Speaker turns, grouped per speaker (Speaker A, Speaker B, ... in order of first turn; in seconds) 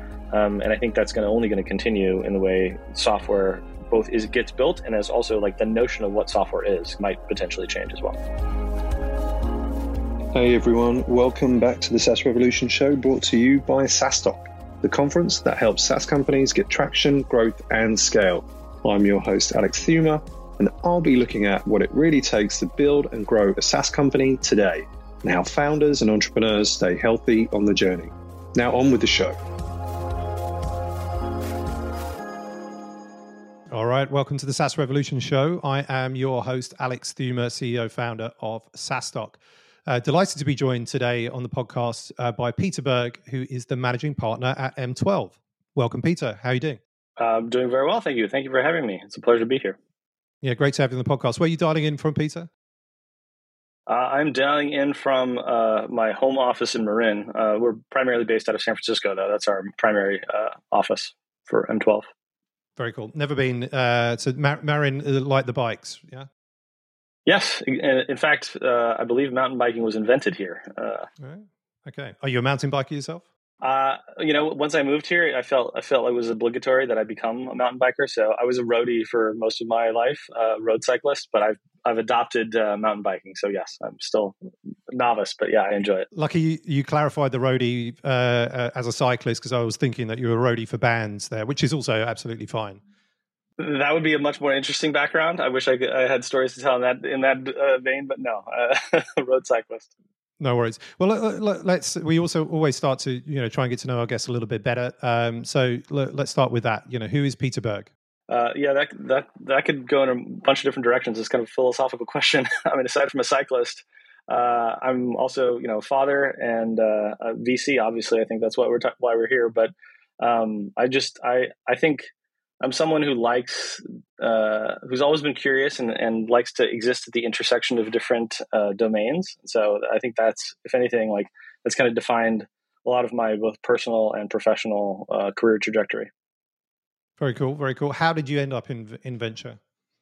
Speaker A: 0.3-8.2, 47.2-49.8, 53.9-62.1, 67.3-71.1, 73.6-84.3, 84.9-86.1, 93.6-99.9, 108.3-122.1, 122.6-136.1
Speaker B: 10.3-29.4
Speaker C: 33.7-46.8, 50.4-52.5, 62.8-66.3, 71.2-73.2, 86.1-92.8, 100.4-107.9, 137.2-139.6